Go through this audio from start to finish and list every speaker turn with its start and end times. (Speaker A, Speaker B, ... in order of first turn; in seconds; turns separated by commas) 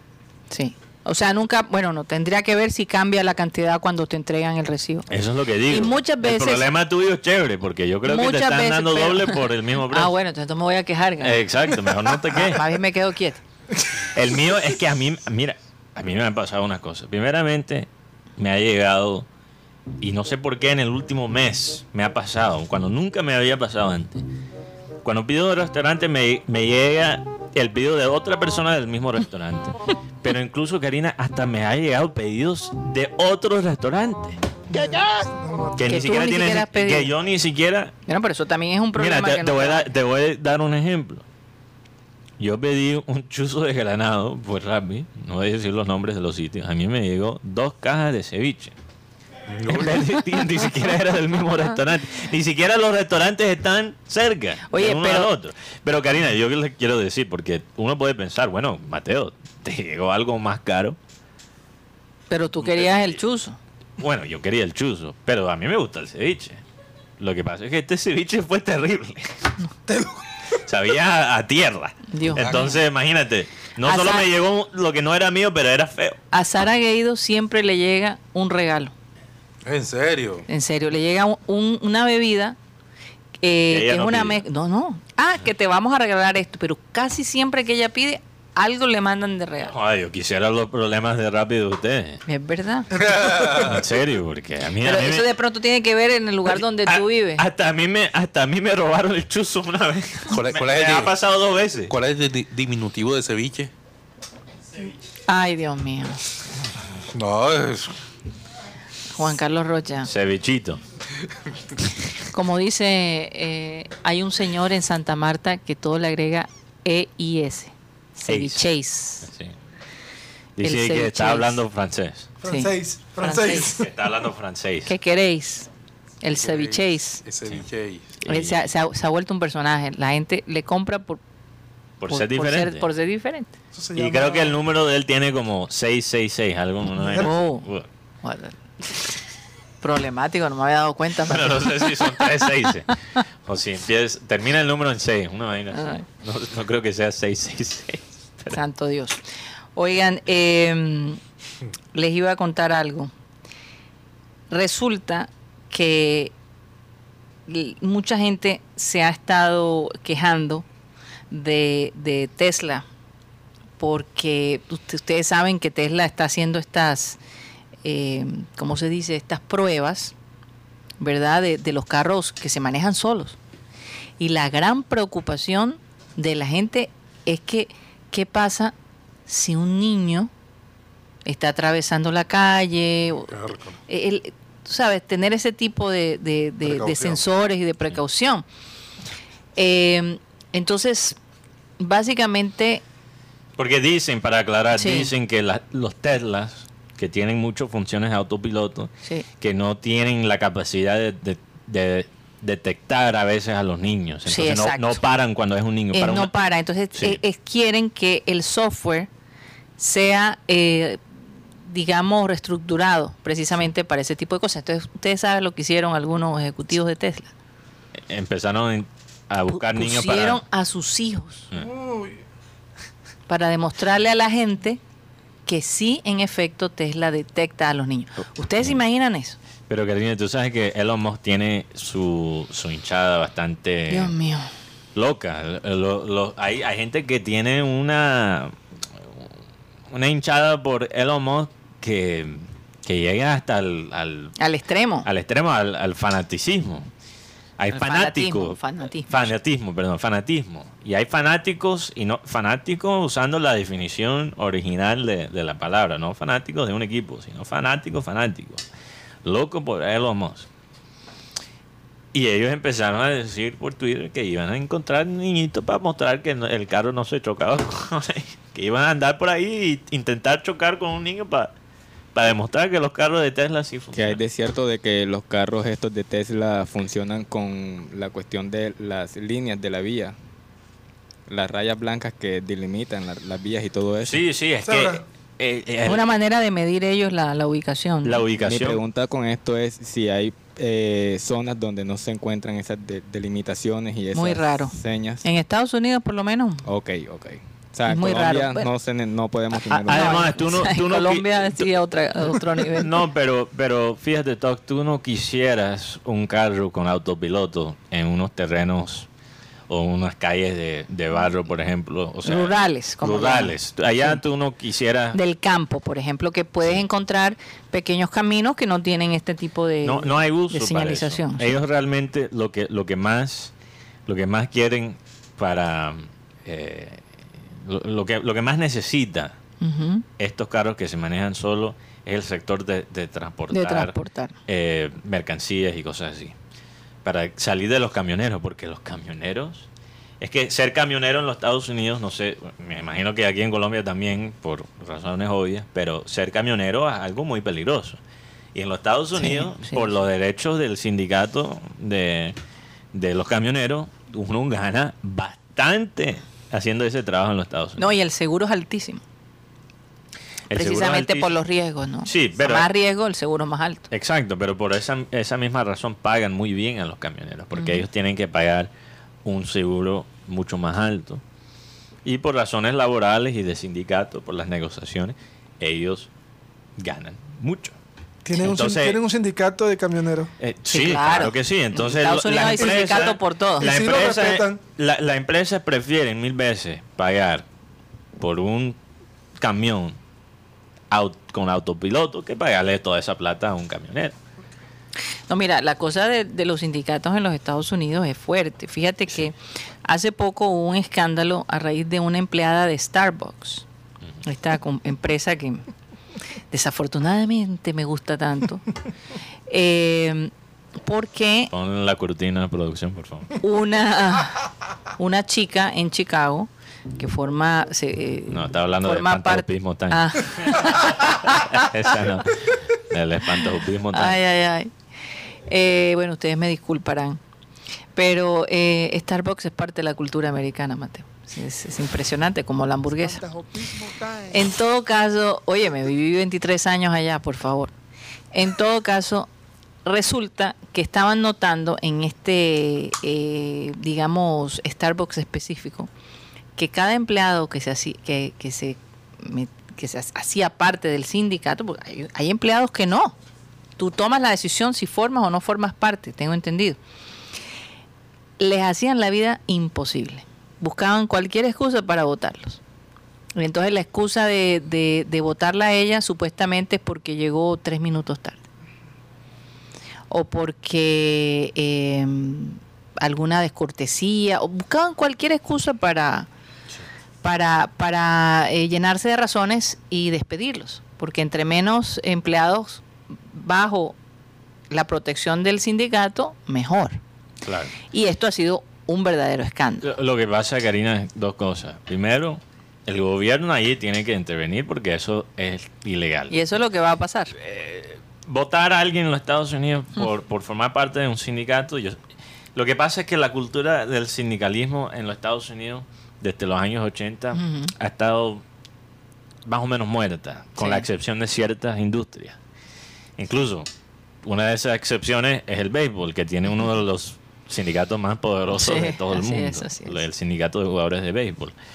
Speaker A: 0.5-5.1, Speaker B: 5.1-10.1, Speaker A: 5.7-6.7, Speaker A: 8.0-11.4, Speaker B: 11.2-12.7, Speaker A: 12.3-13.4, Speaker B: 14.1-19.2, Speaker B: 20.0-24.2, Speaker B: 25.0-34.4, Speaker C: 34.7-36.1, Speaker B: 35.8-37.9, Speaker A: 35.9-37.1, Speaker A: 38.1-39.8, Speaker B: 38.9-41.2, Speaker B: 42.4-48.7, Speaker D: 49.5-49.9, Speaker B: 49.7-61.0, Speaker A: 54.7-55.3, Speaker A: 62.3-63.6, Speaker B: 62.6-63.2, Speaker B: 64.0-66.6, Speaker B: 67.2-69.5, Speaker C: 69.9-70.2, Speaker B: 70.6-76.2, Speaker A: 72.1-72.8, Speaker D: 72.3-72.7, Speaker A: 73.8-74.3, Speaker A: 76.3-78.9, Speaker D: 79.7-80.5, Speaker A: 80.5-82.5, Speaker A: 83.4-89.7, Speaker B: 83.7-84.4, Speaker B: 89.7-92.2, Speaker A: 92.2-92.9, Speaker C: 92.9-93.7, Speaker D: 92.9-93.8, Speaker B: 93.7-95.3, Speaker A: 94.8-97.4, Speaker B: 96.5-101.9, Speaker D: 100.3-101.1, Speaker D: 101.9-103.7, Speaker A: 105.2-106.2, Speaker D: 107.1-108.0, Speaker A: 109.1-110.1, Speaker B: 110.0-110.8, Speaker A: 112.3-119.3, Speaker B: 118.3-118.6, Speaker B: 119.2-119.5, Speaker B: 120.6-122.3, Speaker A: 120.6-121.6, Speaker C: 122.4-123.9, Speaker A: 122.4-123.7, Speaker B: 123.2-124.9, Speaker A: 124.8-125.7, Speaker A: 126.2-127.2, Speaker D: 126.3-128.1, Speaker B: 128.2-128.6, Speaker A: 128.3-131.2, Speaker B: 132.0-132.9, Speaker A: 132.1-133.5, Speaker C: 133.7-134.6, Speaker B: 133.9-137.9, Speaker C: 136.9-137.3, Speaker A: 137.2-137.7, Speaker A: 138.2-139.0, Speaker A: 139.8-142.9, Speaker B: 141.3-148.6, Speaker A: 145.7-146.0, Speaker A: 148.5-149.2, Speaker A: 149.8-151.2, Speaker A: 151.9-153.1, Speaker A: 154.5-156.3, Speaker A: 157.5-160.7, Speaker A: 161.3-162.8, Speaker A: 163.8-167.2, Speaker A: 167.8-170.1, Speaker A: 171.0-173.4, Speaker A: 174.2-178.7, Speaker A: 179.3-180.3, Speaker A: 181.2-183.3, Speaker D: 183.3-183.8, Speaker A: 183.9-188.4, Speaker D: 186.6-187.2, Speaker A: 189.6-191.2, Speaker A: 191.8-192.8, Speaker B: 193.6-206.3, Speaker A: 194.7-195.1, Speaker A: 204.2-205.0, Speaker A: 205.9-209.1, Speaker B: 206.9-207.2, Speaker A: 209.8-211.0, Speaker A: 211.6-217.3, Speaker B: 218.1-220.4, Speaker A: 219.5-221.5, Speaker C: 221.5-222.2, Speaker A: 223.3-224.8, Speaker A: 225.4-229.4, Speaker B: 229.7-234.1, Speaker A: 233.9-234.5, Speaker B: 234.9-239.3, Speaker B: 239.9-244.3, Speaker A: 244.4-245.1, Speaker B: 245.0-246.9, Speaker B: 247.6-258.6, Speaker A: 247.7-249.3, Speaker B: 259.2-260.5, Speaker B: 262.1-271.5, Speaker B: 272.1-274.2, Speaker E: 273.9-280.1, Speaker E: 281.3-284.2, Speaker B: 284.0-286.0, Speaker C: 284.6-285.0, Speaker A: 285.9-288.2, Speaker B: 288.0-288.8, Speaker E: 288.4-295.2, Speaker A: 294.1-296.6, Speaker E: 296.6-300.3, Speaker A: 297.9-298.7, Speaker A: 299.7-303.0, Speaker B: 299.9-301.7, Speaker B: 302.4-309.1, Speaker B: 309.7-315.2, Speaker A: 312.2-314.2, Speaker A: 315.1-321.6, Speaker B: 319.8-323.5, Speaker B: 324.1-329.3, Speaker A: 329.6-330.0, Speaker B: 330.2-333.9, Speaker A: 333.5-334.4, Speaker B: 334.5-336.3, Speaker B: 337.0-339.7, Speaker B: 340.2-348.0, Speaker B: 348.5-352.4, Speaker A: 349.1-349.9, Speaker B: 352.9-357.8, Speaker A: 357.8-359.0, Speaker B: 360.5-361.3, Speaker A: 360.5-363.9, Speaker B: 362.1-362.7, Speaker B: 363.9-368.7, Speaker A: 367.5-367.8, Speaker B: 369.2-371.2, Speaker B: 372.0-376.1, Speaker B: 376.8-377.7, Speaker C: 378.2-380.3, Speaker B: 378.3-379.0, Speaker B: 380.4-387.4, Speaker A: 380.7-383.7, Speaker C: 382.6-384.6, Speaker B: 388.2-388.8, Speaker B: 389.4-390.0, Speaker B: 390.9-394.1, Speaker A: 395.3-403.6, Speaker A: 404.2-405.6, Speaker A: 406.5-408.6, Speaker A: 409.5-411.5, Speaker B: 411.5-413.4, Speaker A: 413.4-414.4, Speaker A: 415.0-422.0, Speaker B: 418.3-424.2, Speaker A: 423.9-424.7, Speaker A: 425.5-427.2, Speaker A: 427.9-433.2, Speaker C: 433.0-434.4, Speaker A: 434.3-437.7, Speaker A: 438.3-439.3, Speaker A: 439.8-445.9, Speaker A: 446.6-453.1, Speaker A: 453.8-456.8, Speaker A: 458.4-462.6, Speaker A: 463.4-468.4, Speaker A: 470.1-476.3, Speaker A: 477.2-483.9, Speaker A: 484.7-487.0, Speaker B: 487.4-487.8, Speaker A: 487.9-489.9, Speaker B: 489.8-496.4, Speaker A: 496.3-497.3, Speaker B: 497.4-502.0, Speaker B: 502.6-508.4, Speaker A: 507.3-507.7, Speaker B: 509.4-512.4, Speaker A: 510.6-510.9, Speaker B: 513.2-513.7, Speaker B: 514.2-521.5, Speaker A: 518.5-520.0